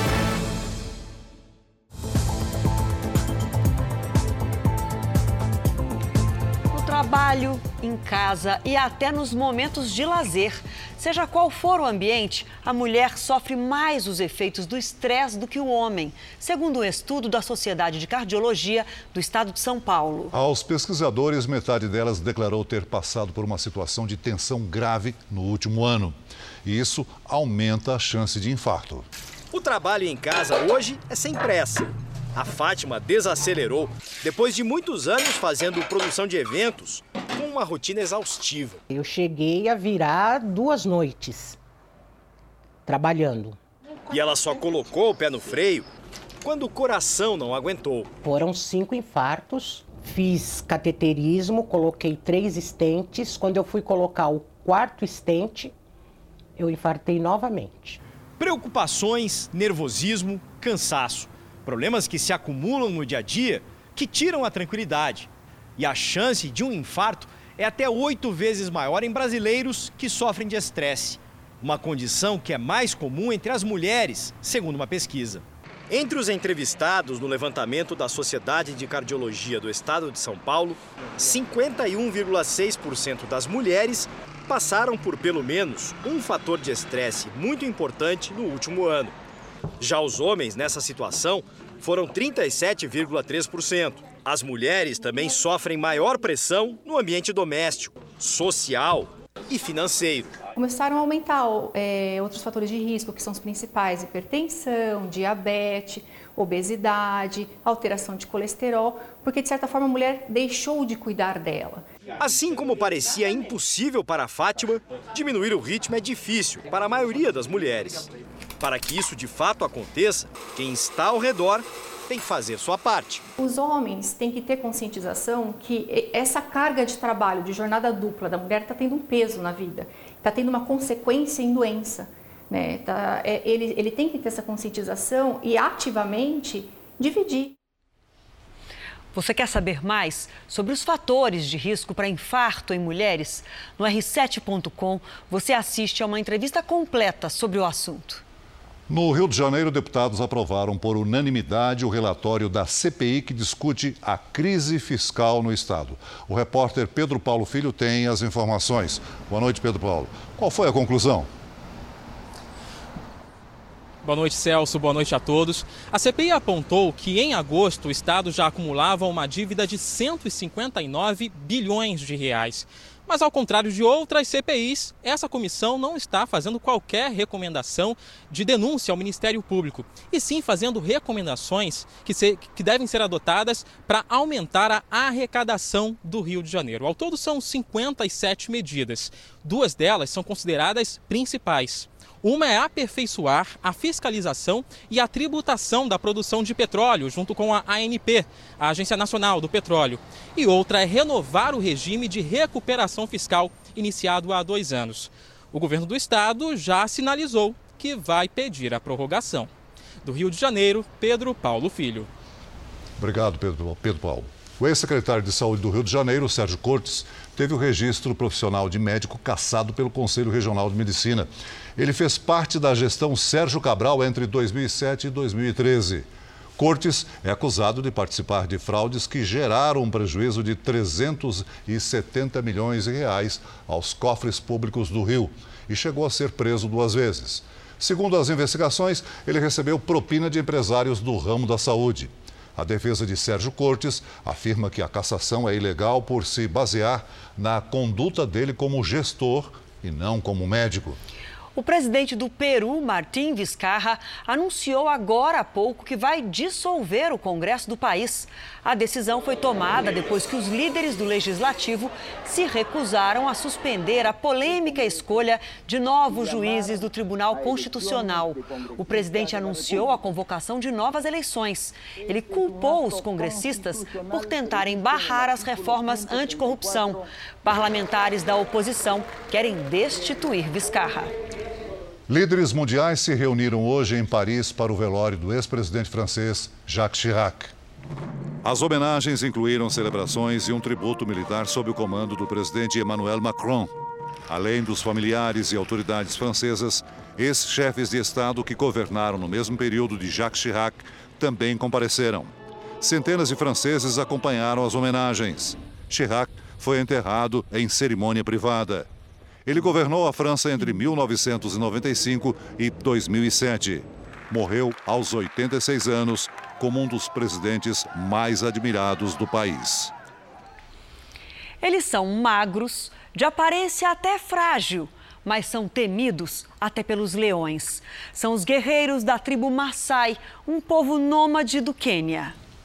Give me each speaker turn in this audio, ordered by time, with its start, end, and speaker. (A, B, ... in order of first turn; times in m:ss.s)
0:06.7-0:20.3 A
0:20.3-0:29.1 B
0:29.5-0:38.8 C
0:38.9-0:41.6 D
0:42.8-0:43.6 D
0:44.1-0:45.8 C
0:46.4-0:48.1 C
0:48.2-0:55.7 D
0:56.6-0:58.0 D
0:58.4-1:29.1 C
1:29.8-1:40.3 C
1:40.6-1:51.8 E
1:52.2-1:58.1 C
1:58.6-2:03.2 C
2:03.4-2:17.5 E
2:19.1-2:28.2 A
2:28.9-2:41.3 B
2:44.0-3:29.5 F
3:30.0-3:32.1 F
3:33.0-4:11.0 B
4:11.5-4:41.1 A
4:42.1-4:47.5 B
4:48.4-4:53.7 B
4:54.3-5:08.9 B
5:09.4-5:19.9 B
5:21.6-5:32.3 A